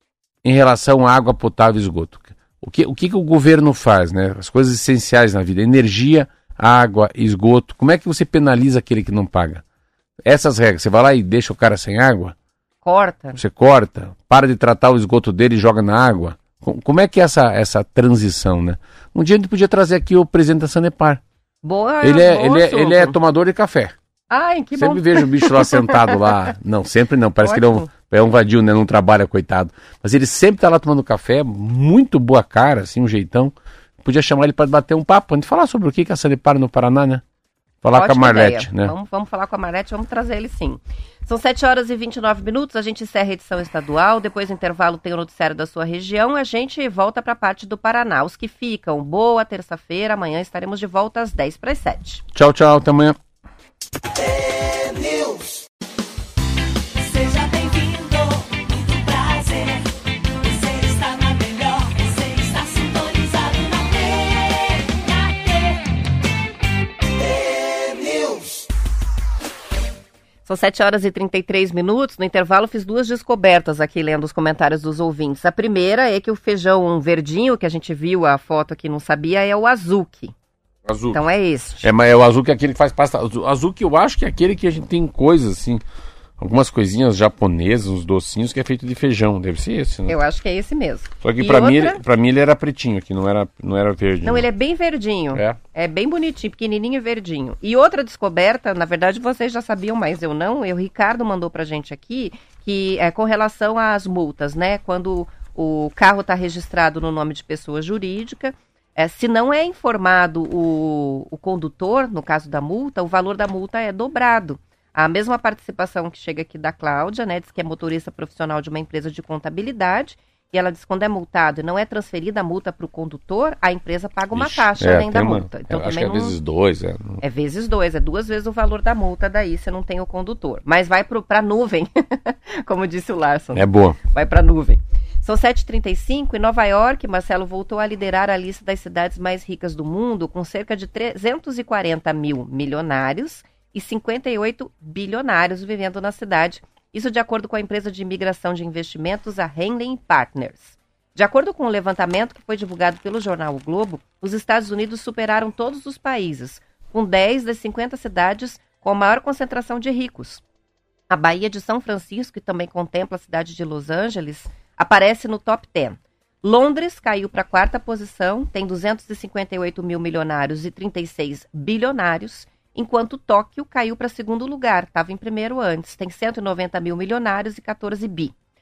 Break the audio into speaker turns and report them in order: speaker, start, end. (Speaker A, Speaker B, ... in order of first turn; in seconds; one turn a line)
Speaker A: 0.4-9.6
Speaker A: 10.2-12.3
Speaker B: 12.8-13.4
Speaker A: 13.3-21.2
Speaker B: 21.6-23.1
Speaker A: 22.0-23.9
Speaker B: 24.3-26.2
Speaker A: 24.8-37.2
Speaker B: 27.4-27.9
Speaker A: 37.8-38.9
Speaker B: 38.0-52.2
Speaker A: 52.3-53.1
Speaker C: 54.7-55.3
Speaker C: 57.0-59.8
Speaker C: 60.5-64.9
Speaker B: 70.4-80.3
Speaker A: 80.8-81.2
Speaker B: 81.1-81.9
Speaker A: 81.8-85.8
Speaker A: 86.4-90.2
Speaker B: 90.1-92.0
Speaker A: 91.2-94.5
Speaker B: 94.2-126.4
Speaker A: 95.3-95.6
Speaker A: 124.3-127.2
Speaker B: 127.2-160.4
Speaker A: 133.5-134.0
Speaker B: 161.1-178.3